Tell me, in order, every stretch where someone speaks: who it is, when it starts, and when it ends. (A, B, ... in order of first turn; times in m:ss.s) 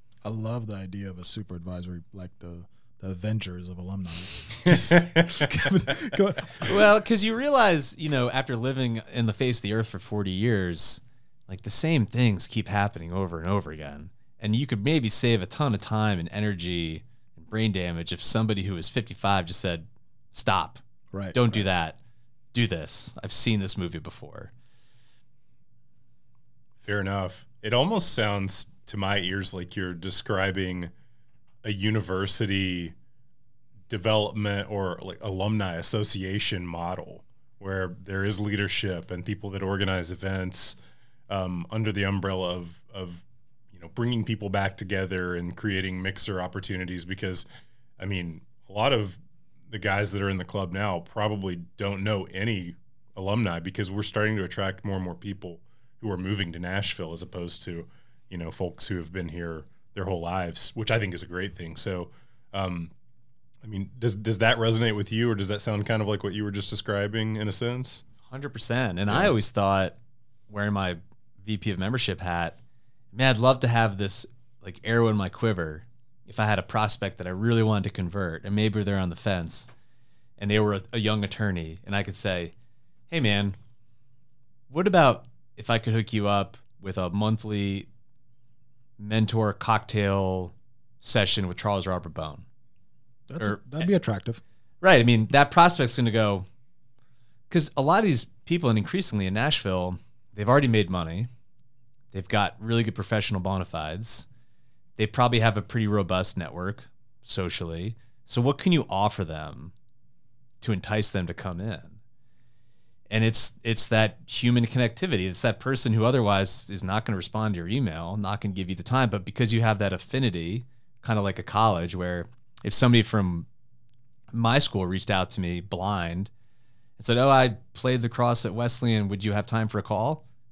0:00.2-0:06.8 A
0:04.6-0:05.7 B
0:06.6-0:20.8 C
0:21.1-0:21.6 A
0:21.3-0:22.0 C
0:22.5-0:24.5 C
0:26.8-0:30.9 B
0:31.6-0:33.0 B
0:33.9-0:40.8 B
0:41.3-0:47.5 B
0:48.0-0:49.2 B
0:49.7-1:02.9 B
1:03.6-1:08.0 B
1:08.3-1:10.0 C
1:10.5-1:12.6 C
1:13.1-1:19.7 C
1:20.4-1:22.5 C
1:23.1-1:23.6 C
1:24.7-1:27.9 C
1:29.0-1:32.4 C
1:33.3-1:34.4 A
1:33.4-1:33.9 C
1:34.8-1:36.5 C
1:37.5-1:41.3 C
1:42.1-1:44.3 C
1:45.0-1:49.7 C
1:50.6-1:52.0 C
1:53.1-2:03.5 C
2:04.3-2:06.3 C
2:07.0-2:10.2 C